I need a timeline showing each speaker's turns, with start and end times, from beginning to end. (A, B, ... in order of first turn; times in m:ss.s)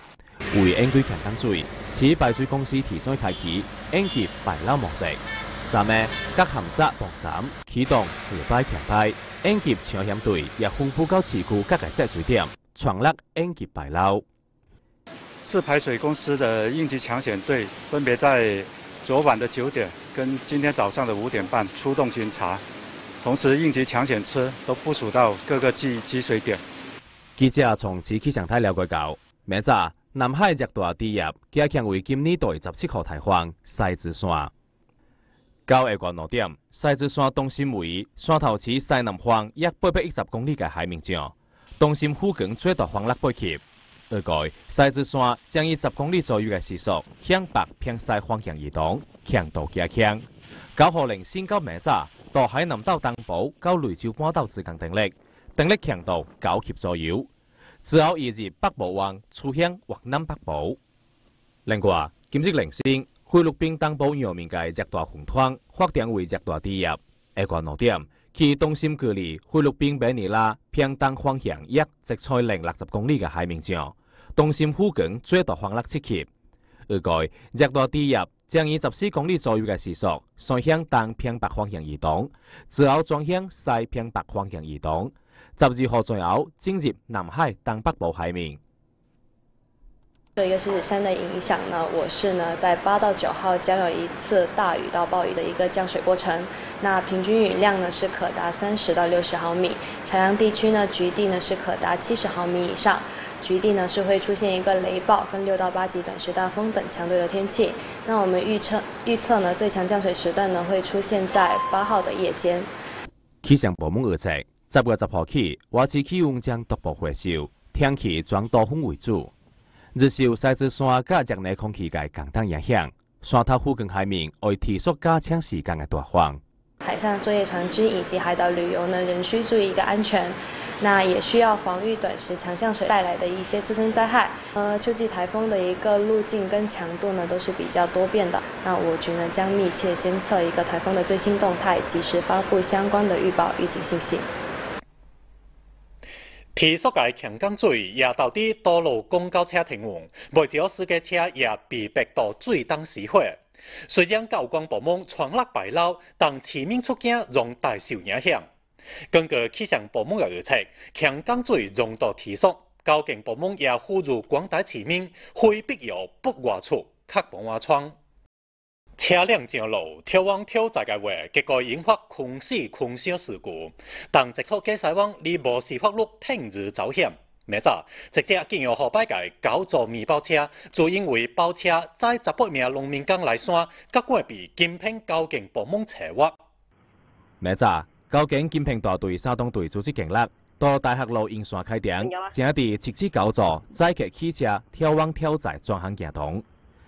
0:00.5-0:14.2 A
0:15.4-0:22.6 B
0:23.2-0:26.6 B
0:27.4-0:34.5 A
0:35.7-0:50.2 A
0:50.8-0:57.3 A
0:57.8-1:00.8 A
1:01.6-1:16.3 A
1:16.9-1:28.6 A
1:30.4-1:52.7 C
1:53.4-1:59.3 A
1:59.9-2:06.4 A
2:06.8-2:24.3 C
2:26.5-2:38.5 D
2:39.1-2:47.9 D
2:49.0-3:06.4 D
3:07.4-3:16.4 A